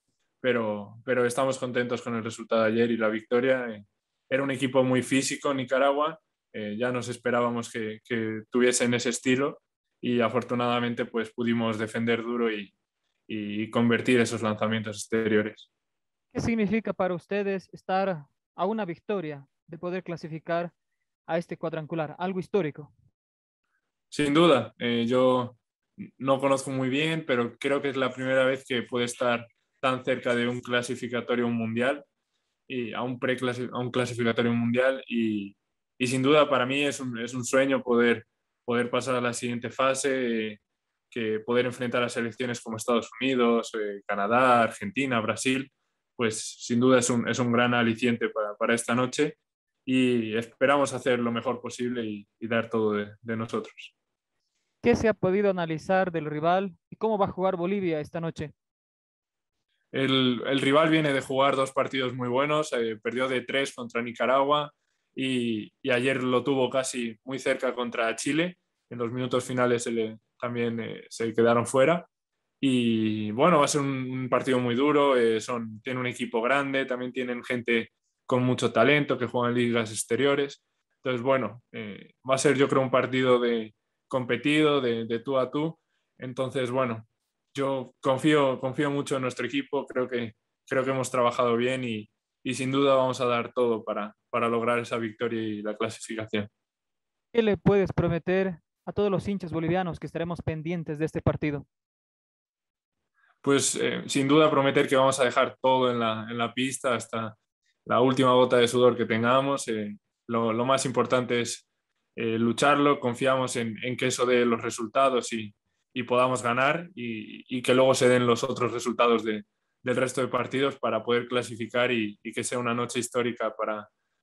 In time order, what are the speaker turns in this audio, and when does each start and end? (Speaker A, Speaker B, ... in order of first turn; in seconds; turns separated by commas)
Speaker A: 0.4-12.7, Speaker A: 13.3-15.7, Speaker B: 16.3-20.7, Speaker B: 21.3-22.9, Speaker A: 24.1-32.0, Speaker A: 32.7-40.6, Speaker A: 41.1-53.9, Speaker B: 54.8-58.5, Speaker A: 59.9-72.1, Speaker A: 72.6-96.5, Speaker B: 97.3-101.7, Speaker A: 103.4-111.6, Speaker A: 112.2-123.9